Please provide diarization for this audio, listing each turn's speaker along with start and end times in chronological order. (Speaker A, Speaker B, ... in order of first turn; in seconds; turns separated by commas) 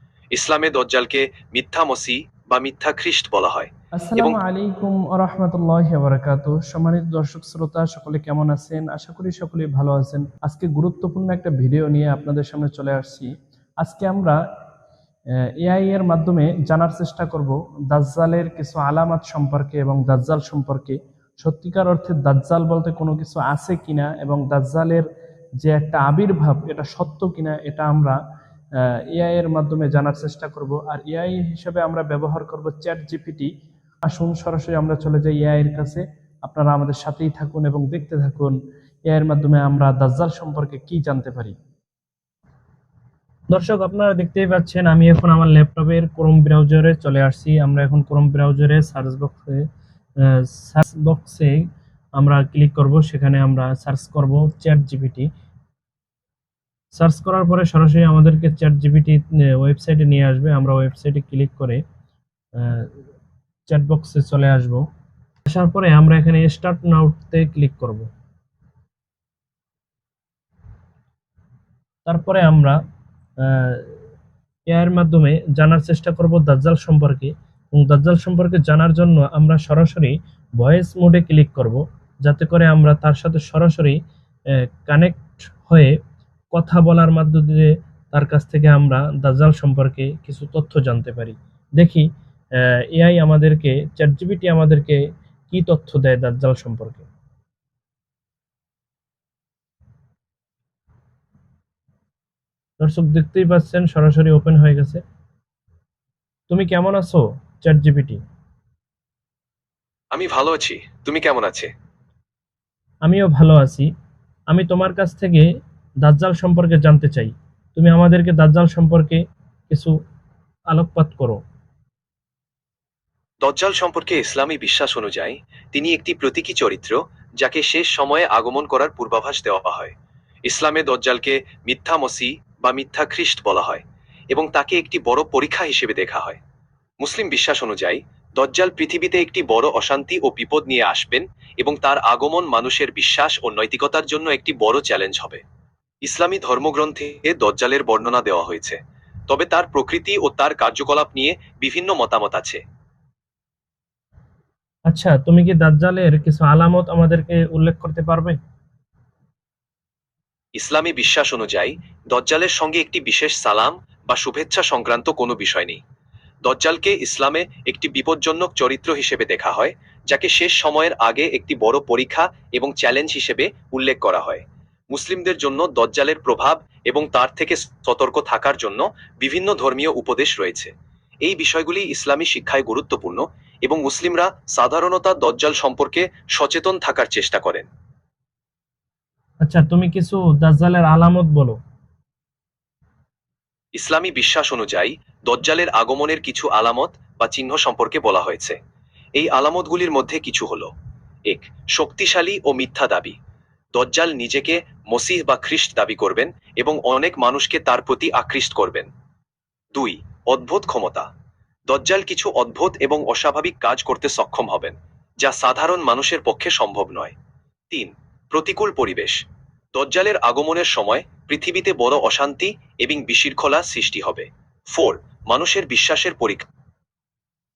Speaker A: 0.3-4.4, Speaker B: 4.0-13.3, Speaker B: 13.8-14.4, Speaker B: 15.6-25.1, Speaker B: 25.6-28.2, Speaker B: 28.8-33.5, Speaker B: 34.1-41.5, Speaker B: 43.5-49.6, Speaker B: 50.2-51.6, Speaker B: 52.2-55.3, Speaker B: 56.9-61.8, Speaker B: 62.5-62.9, Speaker B: 63.7-64.8, Speaker B: 65.5-68.1, Speaker B: 72.0-72.8, Speaker B: 73.4-74.0, Speaker B: 74.7-84.0, Speaker B: 84.5-85.9, Speaker B: 86.5-97.1, Speaker B: 102.8-105.0, Speaker B: 106.5-108.2, Speaker A: 110.1-111.7, Speaker B: 113.0-113.9, Speaker B: 114.5-115.5, Speaker B: 116.0-120.0, Speaker B: 120.7-121.4, Speaker A: 123.4-129.9, Speaker A: 130.5-136.4, Speaker A: 137.0-145.4, Speaker A: 146.1-152.6, Speaker B: 154.9-158.4, Speaker A: 160.6-165.8, Speaker A: 166.4-180.7, Speaker A: 181.2-187.7, Speaker B: 189.4-191.6, Speaker A: 193.8-198.6, Speaker A: 199.2-200.7, Speaker A: 201.3-203.2, Speaker A: 203.8-208.9, Speaker A: 209.7-211.1, Speaker A: 211.7-217.2, Speaker A: 217.7-219.2, Speaker A: 219.7-226.5